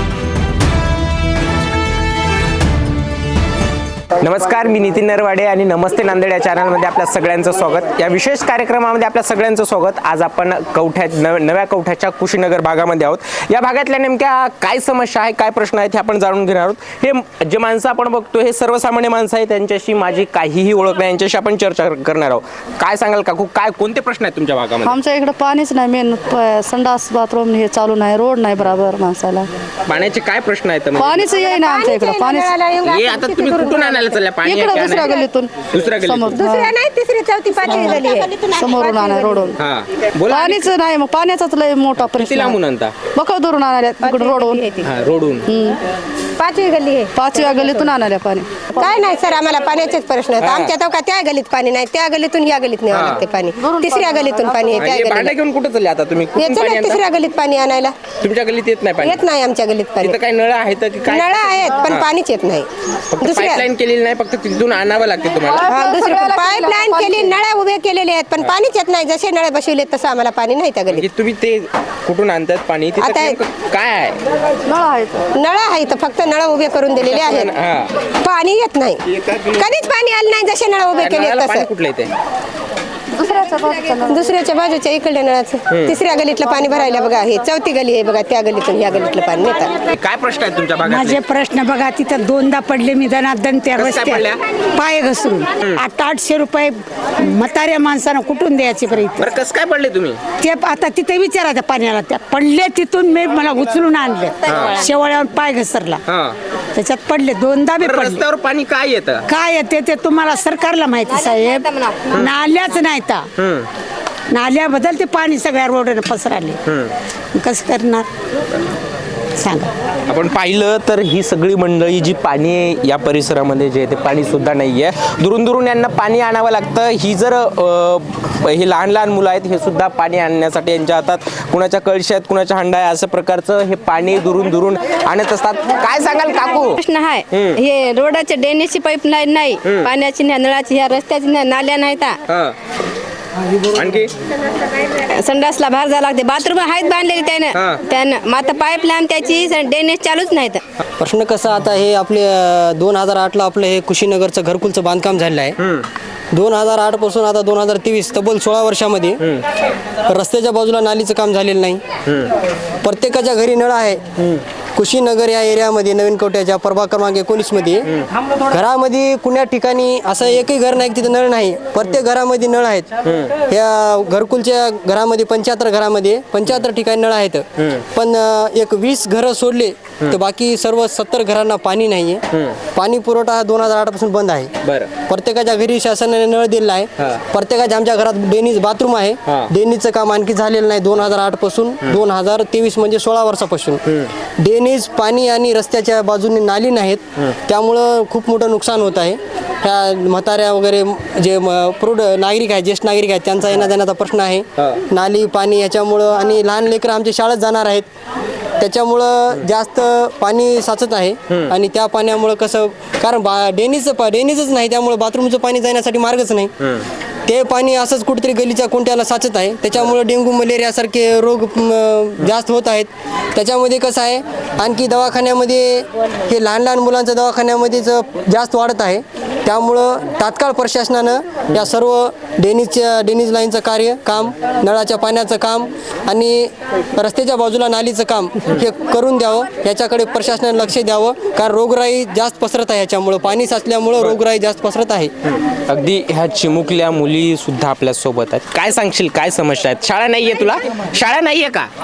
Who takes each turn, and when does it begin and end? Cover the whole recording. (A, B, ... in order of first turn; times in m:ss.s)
0:04.2-0:25.0 A
0:24.8-0:29.5 B
0:29.8-0:31.3 A
0:31.0-0:32.5 B
0:31.4-0:34.2 C
0:32.8-0:35.2 A
0:34.4-0:36.7 B
0:35.7-0:36.4 A
0:36.3-0:39.5 C
0:37.7-0:38.0 B
0:38.5-0:39.6 B
0:39.6-0:40.7 A
0:40.3-0:42.6 B
0:42.0-0:42.9 A
0:43.1-0:44.6 B
0:44.0-0:44.8 C
0:44.8-0:45.5 A
0:45.5-0:45.8 B
0:46.4-0:47.7 C
0:47.1-0:48.9 B
0:48.8-0:55.3 C
0:50.4-0:50.7 A
0:52.9-0:53.2 A
0:53.6-0:54.9 B
0:54.8-0:57.0 A
0:56.4-0:57.9 C
0:58.2-0:59.2 A
0:59.0-1:00.2 C
1:00.0-1:02.1 A
1:01.1-1:02.7 C
1:03.1-1:05.7 A
1:03.2-1:03.6 C
1:05.6-1:07.3 B
1:05.7-1:11.0 C
1:10.9-1:14.2 A
1:13.0-1:13.4 C
1:14.6-1:15.2 B
1:15.3-1:17.5 C
1:17.1-1:18.0 A
1:18.2-1:19.0 C
1:19.1-1:19.6 A
1:19.6-1:21.7 C
1:21.0-1:22.1 A
1:23.2-1:24.3 B
1:24.1-1:29.7 C
1:25.7-1:26.0 A
1:30.0-1:31.2 A
1:30.8-1:39.3 D
1:33.8-1:34.4 A
1:39.2-1:40.2 A
1:40.4-1:46.0 D
1:44.4-1:44.8 A
1:46.1-1:46.4 A
1:46.8-1:48.2 D
1:47.8-1:49.2 A
1:49.3-1:53.3 D
1:51.1-1:52.1 E
1:52.1-1:52.3 A
1:53.4-1:53.7 A
1:54.3-1:56.6 D
1:56.7-1:56.9 A
1:57.4-1:58.1 D
1:59.4-1:59.7 D
2:00.1-2:16.8 A
2:16.8-2:22.2 E
2:17.3-2:17.6 A
2:19.6-2:19.9 A
2:22.3-2:22.5 A
2:23.7-2:24.1 A
2:25.1-2:30.6 E
2:27.5-2:27.8 A
2:31.0-2:35.6 F
2:35.6-2:35.9 A
2:36.3-2:39.2 F
2:40.1-2:41.8 F
2:42.0-2:42.3 A
2:42.8-2:44.0 F
2:44.8-2:47.9 F
2:48.5-2:52.9 F
2:53.0-2:53.3 A
2:53.4-3:02.2 F
2:57.6-2:57.8 A
3:02.3-3:02.6 A
3:02.7-3:04.5 F
3:04.6-3:04.9 A
3:05.0-3:13.8 F
3:07.0-3:07.2 A
3:14.4-3:27.9 F
3:28.6-3:36.5 F
3:36.6-3:36.8 A
3:37.2-4:05.1 F
4:05.7-4:11.7 A